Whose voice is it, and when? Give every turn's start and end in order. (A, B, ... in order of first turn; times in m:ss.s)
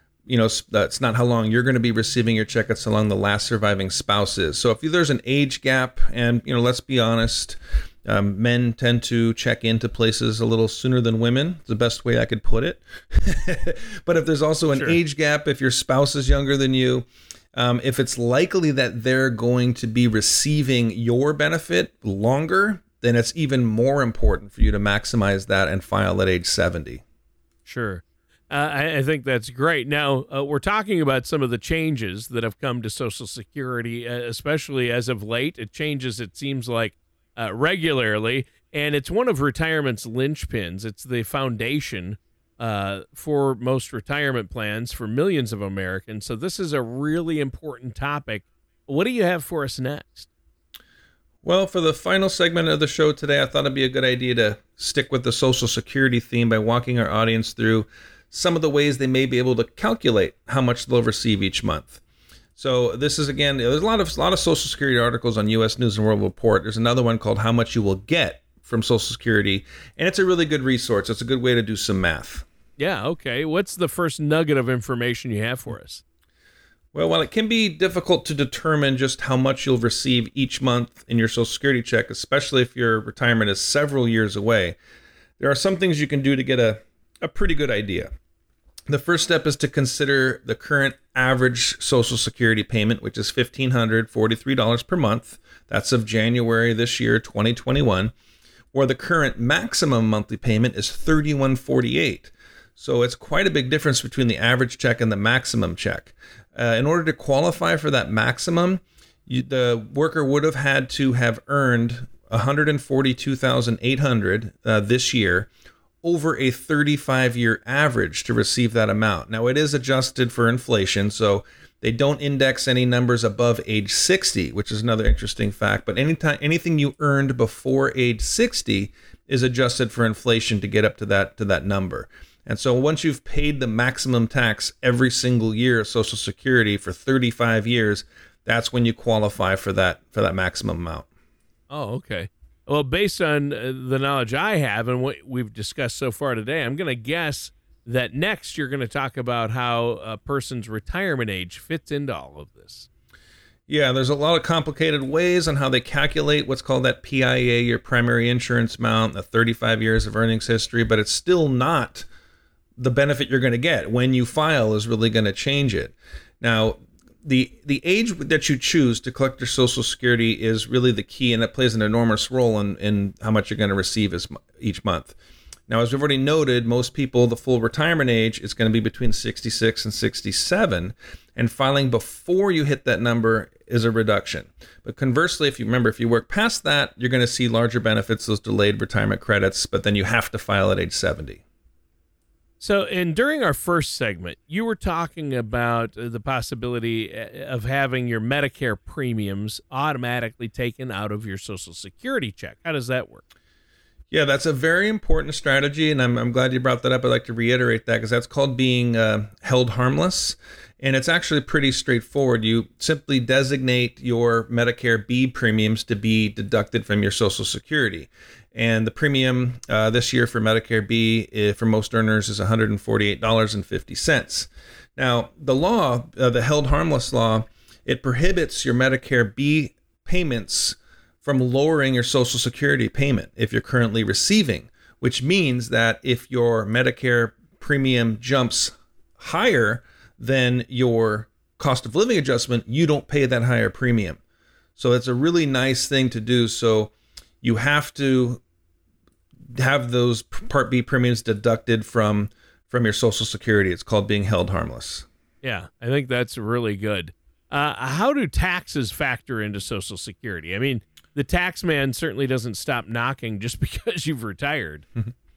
0:00.3-0:27.0 A
0:27.6-0:50.3 B
0:51.4-1:02.0 A
1:02.6-1:12.4 A
1:12.8-1:16.0 B
1:16.9-1:24.8 A
1:25.4-1:28.1 A
1:28.9-1:38.1 A
1:38.7-1:55.5 A
1:56.0-2:21.1 A
2:21.7-2:32.9 B
2:33.7-2:42.0 A
2:42.8-2:55.1 A
2:55.7-3:11.4 A
3:12.6-3:23.2 B
3:24.1-4:04.2 A
4:04.8-4:08.4 A
4:09.6-4:15.0 A
4:15.4-4:24.9 B